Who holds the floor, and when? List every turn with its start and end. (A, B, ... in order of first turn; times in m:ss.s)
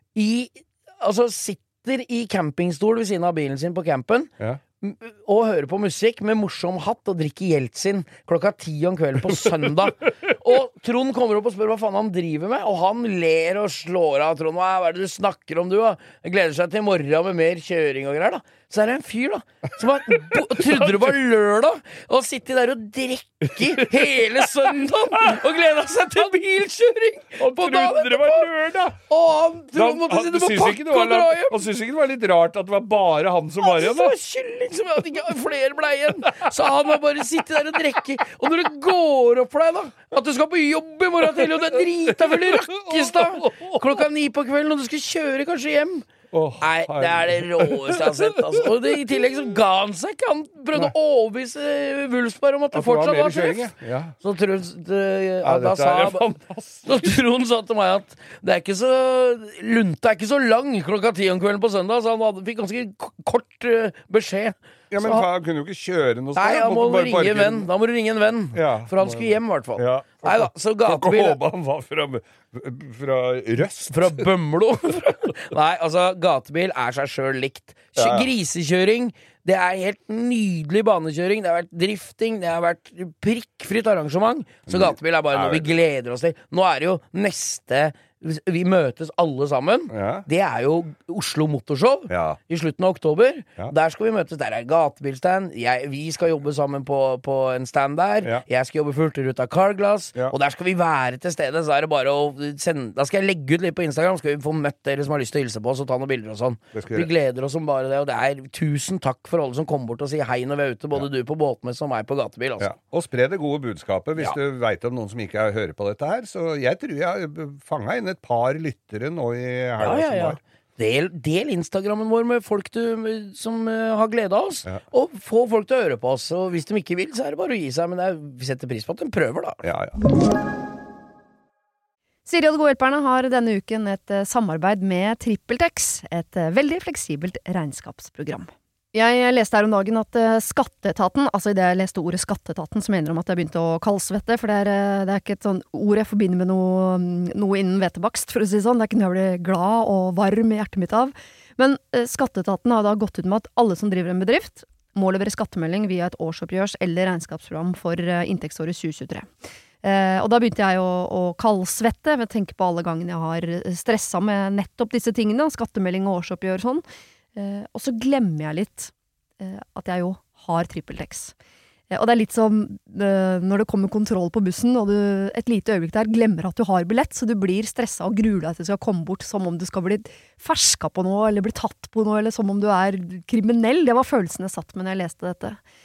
0:00.2-0:28.5 A
0:09.3-0:09.9 B
0:20.1-0:21.1 B
0:23.6-0:24.7 B
0:27.4-0:29.0 B
0:29.1-0:31.6 A
0:29.7-0:34.2 B
0:33.6-0:46.1 A
0:36.3-0:36.7 B
0:41.2-0:44.1 B
0:46.3-0:49.2 B
0:46.6-0:53.7 A
0:52.7-0:54.2 B
0:54.2-0:56.2 A
0:55.4-0:57.2 B
0:56.8-1:05.3 A
1:04.9-1:07.7 B
1:06.4-1:11.4 A
1:08.5-1:14.3 B
1:13.6-1:52.7 A
1:18.0-1:18.3 B
1:24.7-1:25.8 B
1:29.9-1:30.3 B
1:32.1-1:32.4 B
1:46.7-1:47.1 B
1:52.6-2:00.4 B
1:59.8-2:09.6 A
2:09.6-2:10.0 B
2:12.3-2:39.3 C
2:39.8-2:46.8 C
2:47.4-2:51.3 C
2:51.9-3:05.6 C